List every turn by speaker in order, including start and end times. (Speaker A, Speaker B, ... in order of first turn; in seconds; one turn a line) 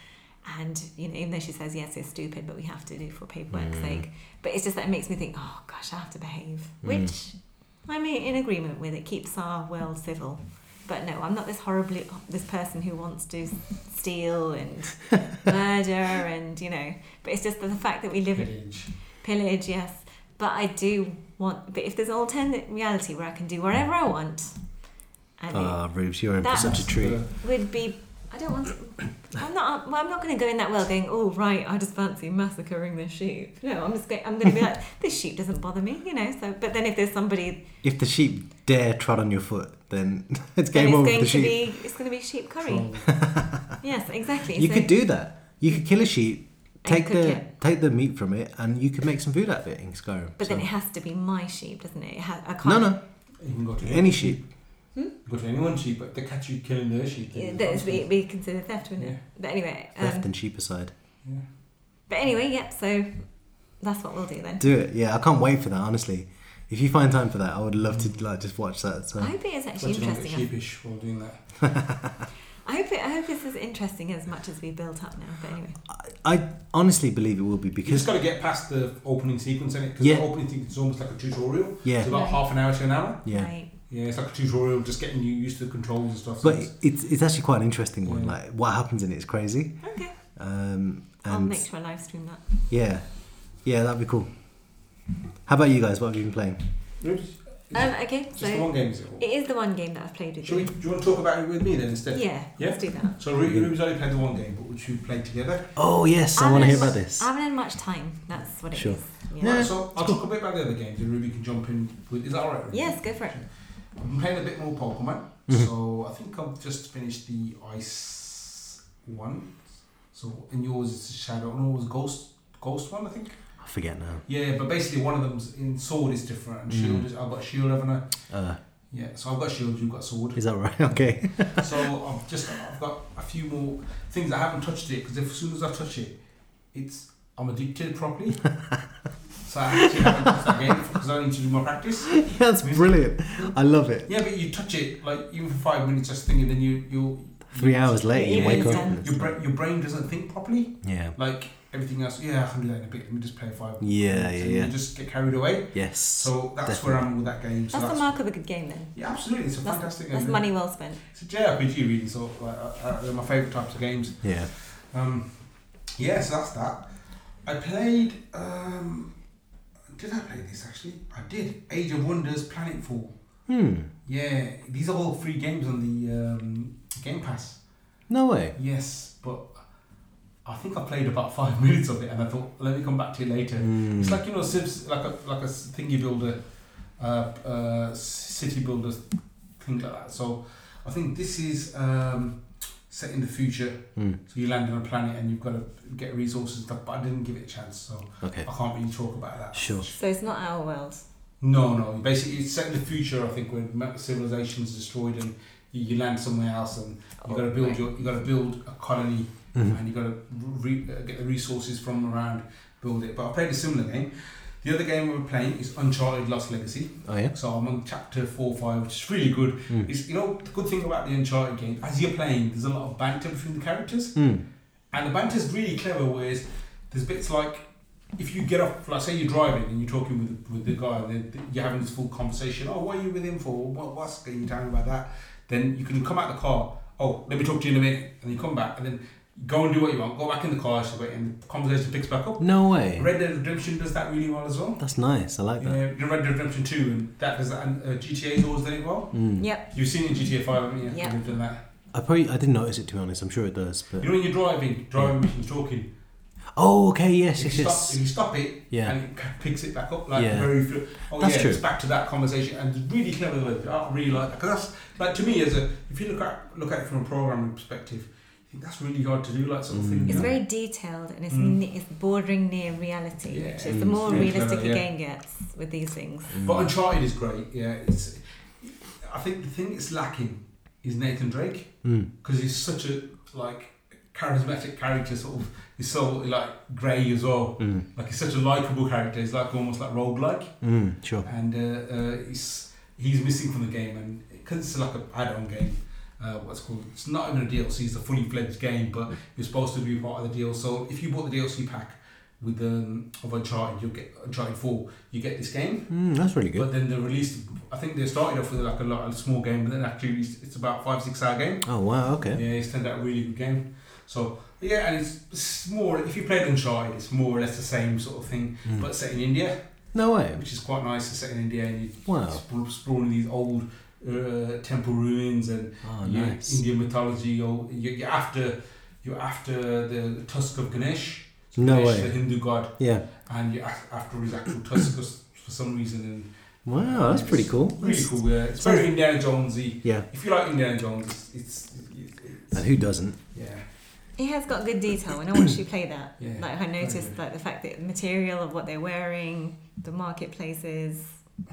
Speaker A: 0.4-24.9
Speaker B: 3.5-4.0
Speaker B: 6.8-7.1
Speaker C: 18.3-18.9
Speaker A: 25.4-37.7
Speaker B: 25.5-27.2
Speaker C: 26.5-27.3
Speaker B: 37.8-41.7
Speaker A: 40.7-43.2
Speaker C: 42.6-43.2
Speaker B: 43.2-43.5
Speaker A: 43.8-44.9
Speaker B: 44.5-50.6
Speaker A: 46.8-47.5
Speaker A: 50.4-52.9
Speaker B: 52.6-53.0
Speaker C: 53.4-54.5
Speaker B: 53.8-54.4
Speaker C: 55.2-58.1
Speaker A: 57.3-60.3
Speaker B: 59.9-60.9
Speaker A: 62.1-64.7
Speaker B: 64.6-69.3
Speaker A: 69.2-70.5
Speaker C: 69.7-71.7
Speaker A: 72.6-75.8
Speaker B: 75.9-78.1
Speaker C: 77.8-86.7
Speaker B: 81.8-82.1
Speaker A: 82.0-82.4
Speaker B: 83.2-83.5
Speaker A: 83.3-83.7
Speaker B: 86.4-91.7
Speaker C: 88.0-88.3
Speaker A: 89.8-90.2
Speaker A: 91.2-92.4
Speaker B: 92.7-94.3
Speaker B: 95.4-96.7
Speaker C: 97.0-99.3
Speaker A: 97.7-100.7
Speaker C: 100.4-105.8
Speaker A: 102.1-103.2
Speaker B: 103.4-103.7
Speaker B: 105.7-107.3
Speaker A: 106.3-109.7
Speaker B: 108.7-110.2
Speaker C: 109.3-123.5
Speaker A: 112.7-113.4
Speaker B: 123.6-124.2
Speaker C: 124.2-128.3
Speaker B: 126.7-127.1
Speaker B: 128.3-128.6
Speaker C: 128.9-130.4
Speaker B: 130.3-131.8
Speaker C: 131.3-136.2
Speaker C: 136.7-138.6
Speaker C: 139.4-143.5
Speaker B: 142.1-144.1
Speaker C: 144.0-158.2
Speaker B: 147.5-149.3
Speaker A: 148.1-149.0
Speaker B: 150.8-151.1
Speaker B: 153.8-154.7
Speaker B: 155.7-157.0
Speaker A: 157.7-158.9
Speaker C: 158.9-166.9
Speaker A: 159.6-161.0
Speaker B: 164.2-164.5
Speaker C: 167.4-169.1
Speaker C: 169.9-173.1
Speaker B: 173.5-173.9
Speaker C: 174.1-177.6
Speaker B: 178.1-178.6
Speaker C: 178.6-179.7
Speaker C: 180.4-186.4
Speaker B: 183.6-184.2
Speaker C: 187.0-189.0
Speaker C: 189.6-199.9
Speaker B: 198.2-198.5
Speaker B: 199.5-199.9
Speaker A: 199.9-201.0
Speaker C: 201.4-224.2
Speaker A: 207.2-207.8
Speaker B: 217.1-217.3
Speaker B: 224.2-224.4
Speaker C: 224.9-227.6
Speaker C: 228.2-244.8
Speaker B: 242.4-243.1
Speaker B: 244.8-245.8
Speaker C: 245.6-251.6
Speaker B: 249.1-249.4
Speaker A: 249.4-249.7
Speaker A: 250.8-251.2
Speaker B: 251.9-254.1
Speaker C: 254.0-255.9
Speaker B: 256.5-258.0
Speaker C: 257.4-270.3
Speaker B: 258.7-258.9
Speaker B: 260.1-260.5
Speaker B: 261.1-261.6
Speaker B: 269.7-270.3
Speaker A: 270.1-276.4
Speaker C: 271.3-271.6
Speaker C: 273.3-274.9
Speaker B: 273.7-274.3
Speaker C: 276.3-290.6
Speaker B: 276.3-276.7
Speaker B: 281.8-282.1
Speaker B: 287.6-287.8
Speaker B: 290.6-291.3
Speaker C: 291.2-306.0
Speaker B: 305.9-306.7
Speaker C: 306.5-311.8
Speaker B: 311.6-312.4
Speaker C: 312.3-319.6
Speaker B: 319.9-320.4
Speaker C: 320.3-342.7
Speaker B: 322.1-322.4
Speaker B: 325.8-326.6
Speaker B: 331.6-332.2
Speaker B: 332.8-333.0
Speaker B: 336.6-338.9
Speaker B: 342.5-343.2
Speaker C: 343.3-343.6
Speaker A: 344.1-351.2
Speaker C: 346.2-347.1